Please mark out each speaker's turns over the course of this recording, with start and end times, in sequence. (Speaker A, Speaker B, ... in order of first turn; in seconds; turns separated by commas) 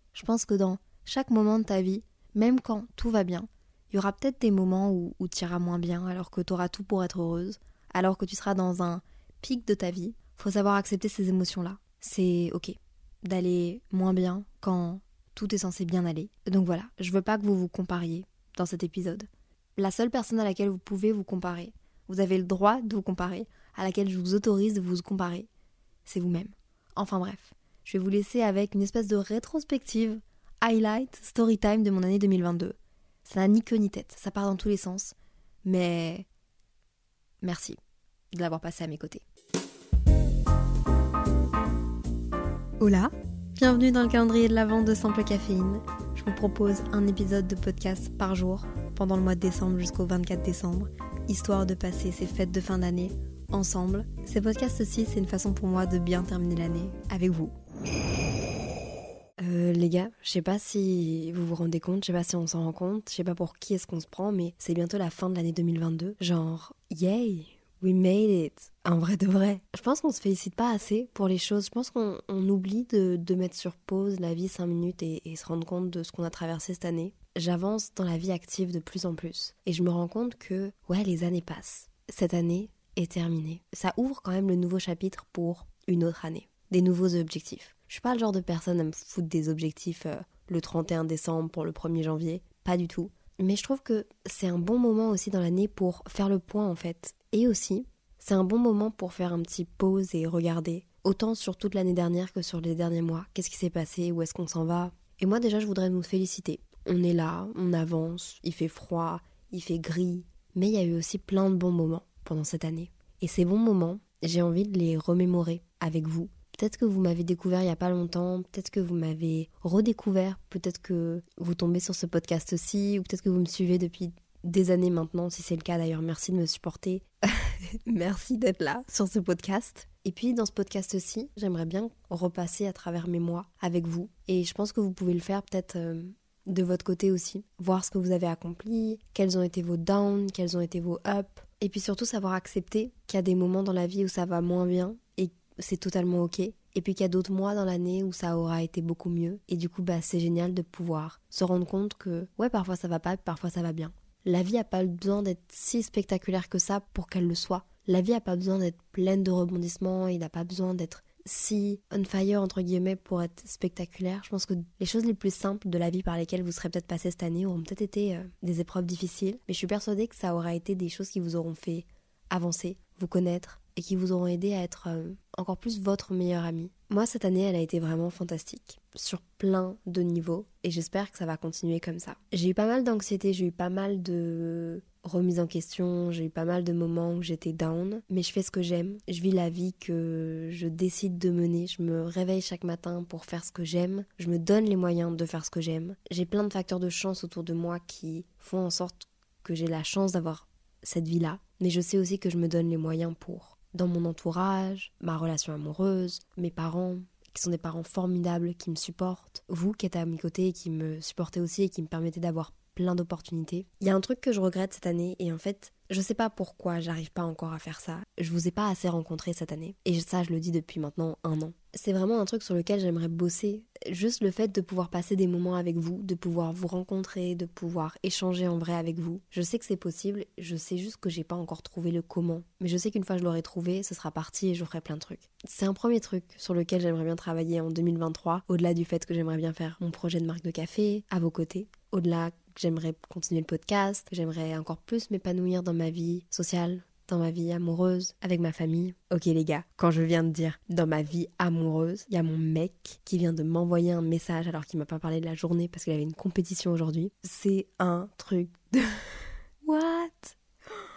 Speaker A: 0.1-25.5, Speaker A: 26.1-36.2, Speaker A: 37.4-37.8, Speaker A: 38.3-39.2, Speaker A: 42.8-57.5, Speaker A: 59.4-260.4